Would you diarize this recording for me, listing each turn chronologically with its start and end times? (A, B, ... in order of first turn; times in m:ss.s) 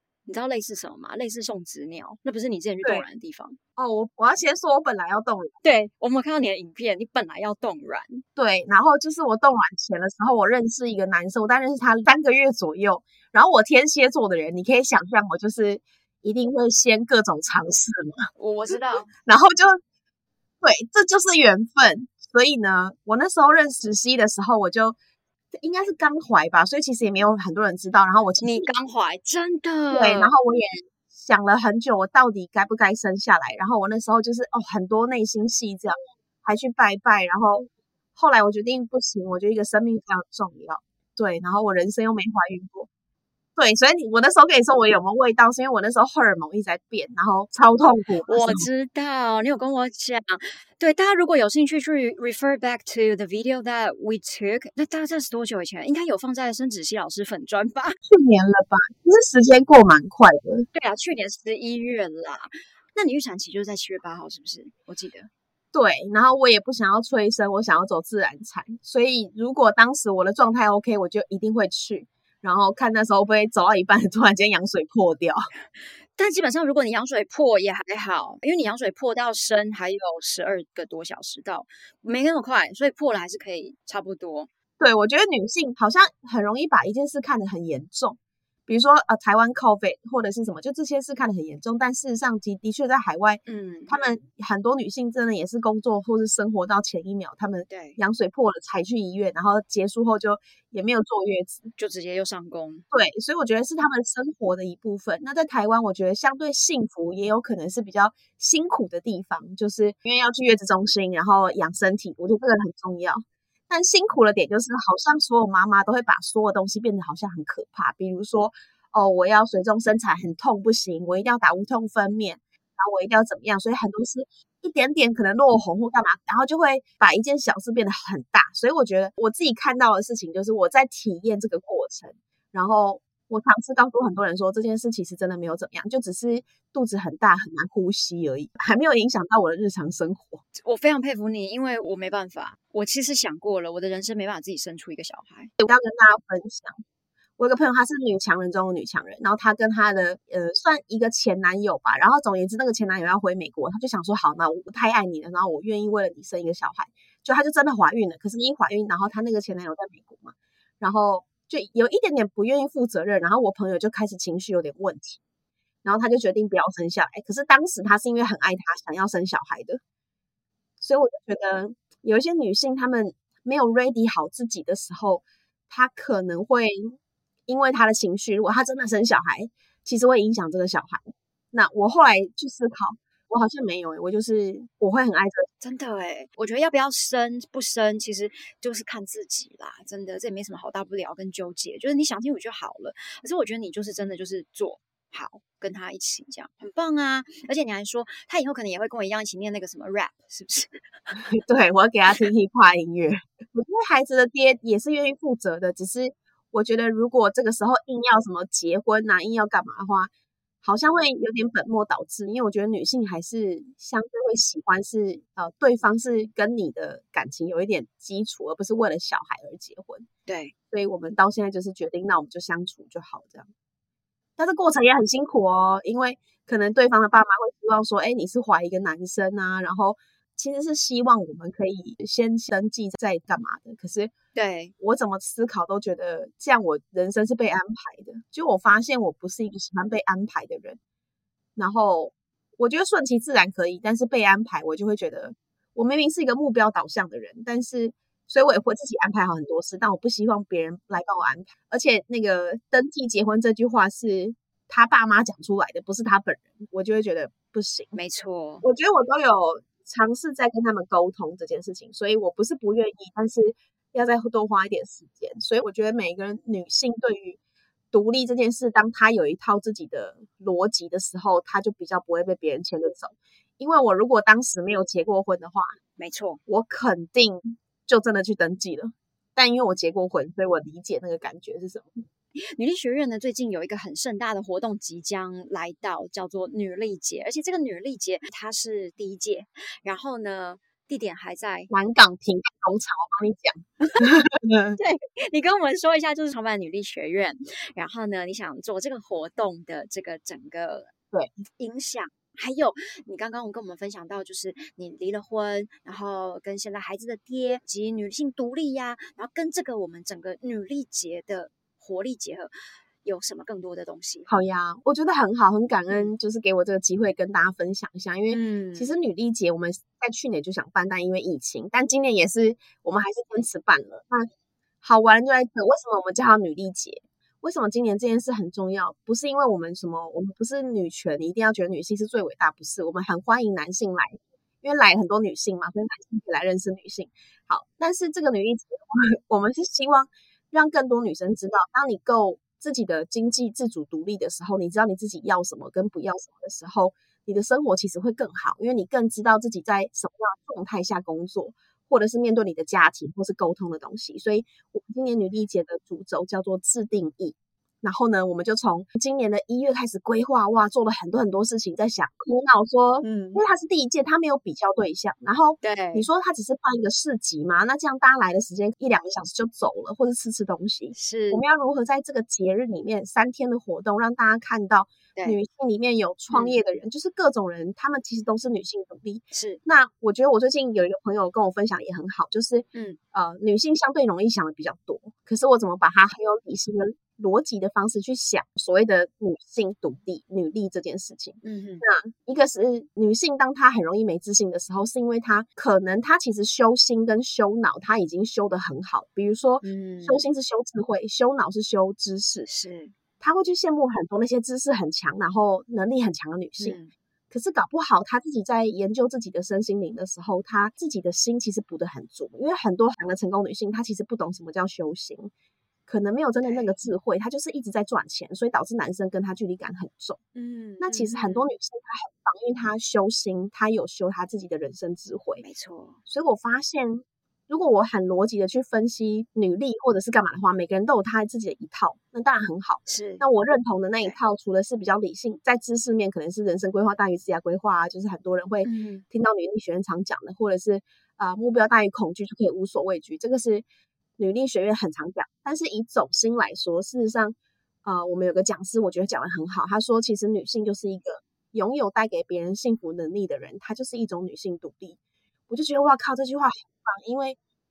0:00.3-0:03.6 A
0:03.8-0:05.5 B
0:05.6-0:08.2 A
0:08.4-0:19.8 B
0:18.4-0:19.1 A
0:20.6-0:25.0 B
0:25.6-0:28.7 B
0:28.4-0:30.3 A
0:29.9-0:42.9 B
0:43.6-0:48.7 B
0:48.3-0:57.9 A
0:58.1-1:00.7 B
1:00.7-1:05.3 A
1:05.7-1:15.4 B
1:16.2-1:24.5 A
1:24.8-1:41.7 B
1:33.4-1:33.9 A
1:37.7-1:38.0 A
1:41.8-1:42.8 A
1:42.9-2:20.4 B
2:20.6-2:25.5 A
2:25.6-2:26.8 B
2:27.4-2:45.2 B
2:45.8-2:49.8 B
2:50.8-3:05.5 B
3:05.6-3:20.8 A
3:21.1-3:30.1 B
3:30.6-3:40.0 B
3:40.3-3:40.5 A
3:40.7-3:43.5 B
3:44.4-3:54.1 B
3:54.3-3:54.7 A
3:54.8-4:00.8 B
4:01.6-4:17.9 B
4:17.9-4:18.6 A
4:18.6-4:27.4 B
4:27.9-4:35.7 B
4:36.0-4:36.4 A
4:36.5-4:42.0 B
4:42.5-4:51.7 A
4:51.7-4:54.8 B
4:54.8-5:00.9 A
5:01.6-5:12.5 A
5:13.0-5:14.3 A
5:14.3-5:24.3 B
5:18.3-5:18.9 A
5:24.8-6:42.5 B
6:03.0-6:03.4 A
6:05.6-6:06.1 A
6:10.9-6:11.4 A
6:16.3-6:16.6 A
6:19.3-6:19.6 A
6:31.4-6:31.8 A
6:39.6-6:40.2 A
6:42.4-6:42.9 A
6:43.2-6:46.8 B
6:46.6-6:46.9 A
6:47.3-6:55.3 B
6:55.9-7:00.2 B
6:56.4-6:56.7 A
7:00.3-7:01.4 A
7:00.8-7:05.4 B
7:05.4-7:06.0 A
7:06.1-7:23.6 B
7:12.8-7:13.2 A
7:18.6-7:19.0 A
7:24.2-7:35.0 B
7:35.5-7:37.4 B